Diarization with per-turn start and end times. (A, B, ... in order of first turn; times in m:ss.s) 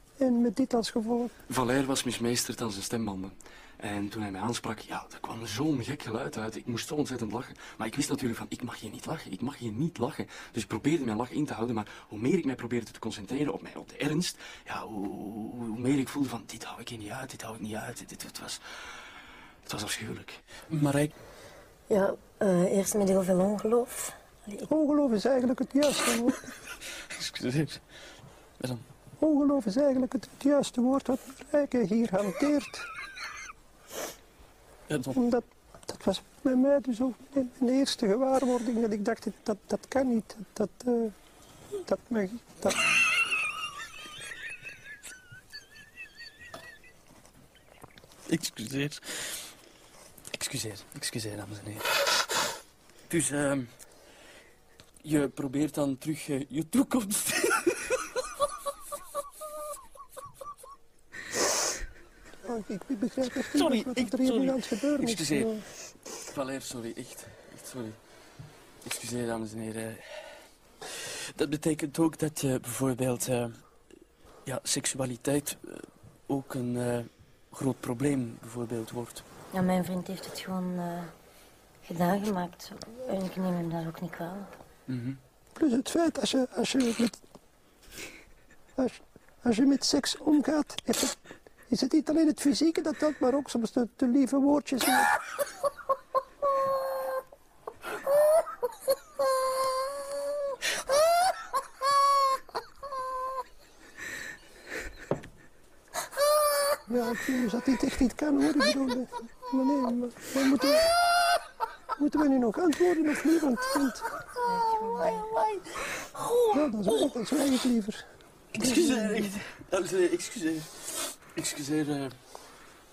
0:00.2-0:01.3 A
0:01.5-0:19.1 B
0:19.6-0:21.1 B
0:21.9-0:24.7 C
0:24.7-0:26.5 A
0:27.1-0:28.8 B
0:29.2-0:32.8 A
0:34.9-0:35.2 B
0:35.1-0:41.2 A
0:41.8-0:42.8 A
0:48.3-0:49.6 B
0:50.3-0:52.4 B
0:53.1-0:54.2 B
0:55.0-0:57.9 B
1:02.4-1:05.7 A
1:03.5-1:10.8 B
1:11.4-1:19.2 B
1:19.5-1:21.2 C
1:21.8-1:24.5 C
1:24.9-1:25.2 B
1:25.6-1:27.2 A
1:28.8-1:35.2 A
1:46.9-1:50.9 A
1:52.0-1:54.1 A
1:54.4-1:55.6 C
1:56.1-1:56.5 C
1:56.5-1:58.1 A
1:58.5-2:02.6 B